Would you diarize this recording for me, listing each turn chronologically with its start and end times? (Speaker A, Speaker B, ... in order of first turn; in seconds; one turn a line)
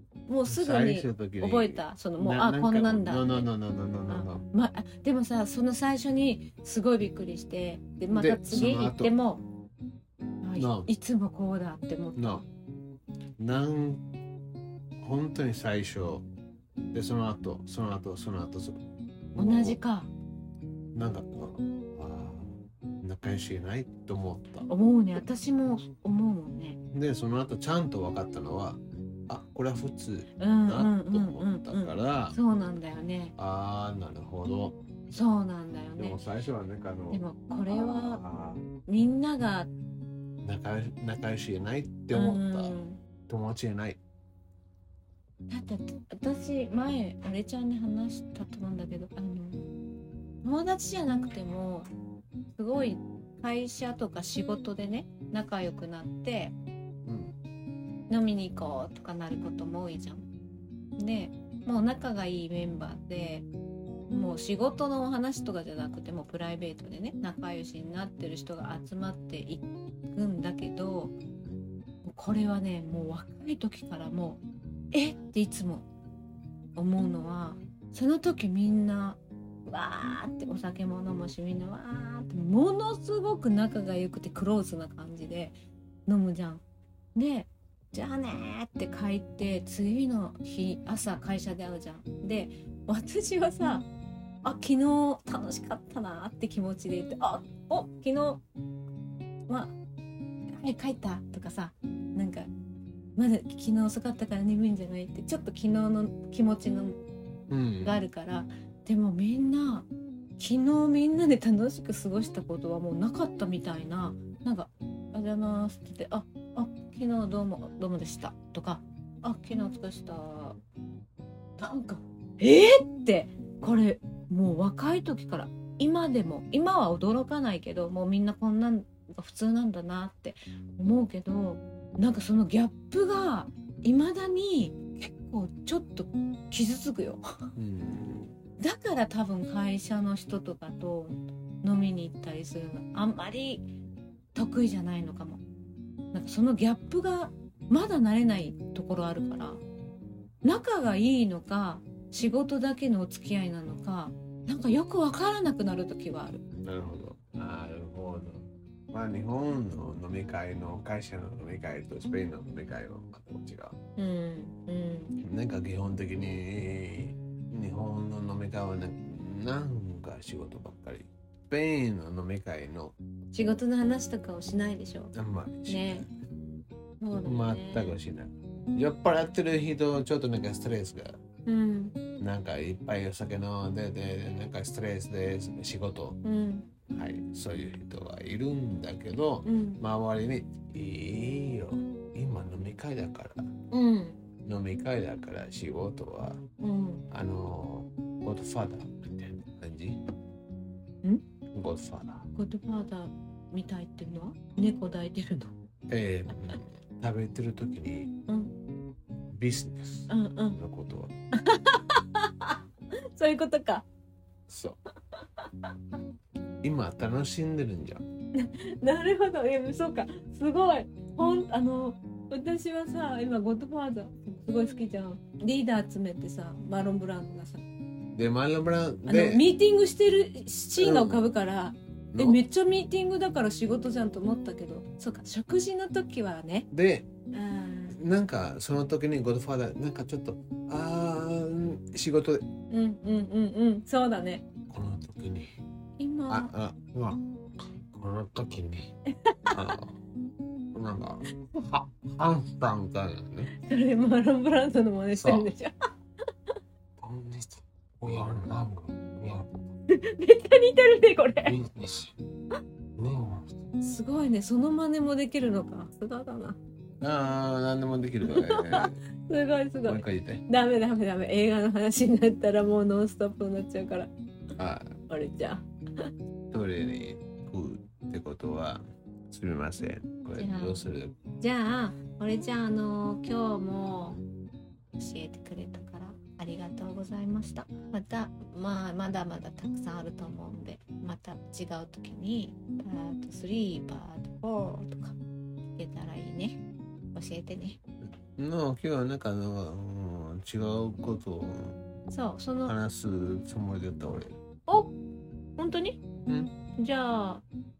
Speaker A: 0.3-3.5
Speaker B: 0.5-4.4
Speaker A: 4.1-9.4
Speaker B: 8.1-9.1
Speaker A: 10.4-12.4
Speaker B: 10.6-10.9
Speaker B: 12.2-12.4
Speaker B: 13.4-14.0
Speaker B: 15.0-16.2
Speaker B: 16.9-18.8
Speaker B: 19.3-19.8
Speaker A: 19.4-20.1
Speaker B: 20.9-24.7
Speaker A: 24.7-26.8
Speaker B: 26.9-32.4
Speaker A: 30.4-33.3
Speaker B: 33.4-34.8
Speaker A: 35.1-36.2
Speaker B: 36.0-38.6
Speaker A: 37.1-38.2
Speaker A: 38.9-39.7
Speaker B: 40.4-42.7
Speaker A: 42.1-43.0
Speaker B: 43.3-44.0
Speaker A: 45.5-49.7
Speaker A: 50.4-51.9
Speaker A: 52.5-56.5
Speaker B: 57.0-57.3
Speaker A: 58.1-60.2
Speaker A: 61.0-63.5
Speaker A: 64.1-71.1
Speaker A: 72.0-74.4
Speaker A: 74.9-75.8
Speaker A: 76.8-85.5
Speaker A: 86.1-86.6
Speaker A: 87.1-93.8
Speaker A: 94.4-98.4
Speaker A: 99.5-99.7
Speaker A: 100.6-102.5
Speaker A: 103.2-107.0
Speaker B: 107.5-108.0
Speaker A: 107.8-109.9
Speaker A: 110.4-120.6
Speaker A: 121.6-137.2
Speaker B: 137.6-138.3
Speaker A: 138.6-143.6
Speaker A: 144.3-145.4
Speaker A: 146.1-149.6
Speaker A: 150.4-156.4
Speaker B: 156.6-163.8
Speaker A: 164.0-165.2
Speaker B: 165.2-172.9
Speaker A: 173.3-175.1
Speaker B: 175.1-176.1
Speaker A: 175.7-176.1
Speaker A: 177.0-177.9
Speaker B: 177.2-181.1
Speaker A: 181.5-181.9
Speaker B: 182.2-186.2
Speaker A: 186.2-186.7
Speaker B: 186.9-193.5
Speaker A: 189.4-189.8
Speaker A: 193.7-194.2
Speaker B: 194.4-196.4
Speaker A: 196.6-197.1
Speaker B: 197.1-200.0
Speaker B: 201.5-202.2
Speaker A: 202.3-205.5
Speaker B: 205.9-208.1
Speaker A: 208.3-208.5
Speaker B: 209.3-211.1
Speaker A: 210.1-210.6
Speaker A: 211.4-212.6
Speaker A: 213.1-213.8
Speaker B: 214.5-214.8
Speaker B: 216.6-218.0
Speaker A: 218.4-227.7
Speaker B: 228.1-229.4
Speaker A: 229.1-236.7
Speaker B: 230.8-231.3
Speaker B: 232.1-232.4
Speaker B: 236.7-237.1
Speaker A: 237.3-237.9
Speaker B: 237.9-242.4
Speaker A: 242.7-244.4
Speaker B: 244.7-245.5
Speaker A: 246.0-246.5
Speaker B: 246.3-247.2
Speaker B: 247.8-248.9
Speaker A: 249.2-249.8
Speaker B: 249.5-250.0
Speaker B: 250.7-253.5
Speaker A: 253.6-255.7
Speaker B: 255.2-255.5
Speaker B: 257.0-259.5
Speaker A: 259.9-261.6
Speaker B: 261.4-262.1
Speaker B: 263.0-263.5
Speaker A: 263.8-266.6
Speaker B: 267.0-269.0
Speaker A: 268.2-274.1
Speaker B: 269.9-270.4
Speaker B: 274.6-274.9
Speaker A: 275.1-276.1
Speaker B: 276.5-281.1
Speaker A: 280.4-280.8
Speaker A: 281.4-284.2
Speaker A: 285.0-295.2
Speaker A: 295.7-296.6
Speaker A: 297.1-297.8
Speaker B: 298.4-301.8
Speaker A: 302.1-302.7
Speaker B: 302.6-304.4
Speaker A: 304.7-304.9
Speaker A: 305.6-306.1
Speaker A: 306.7-307.4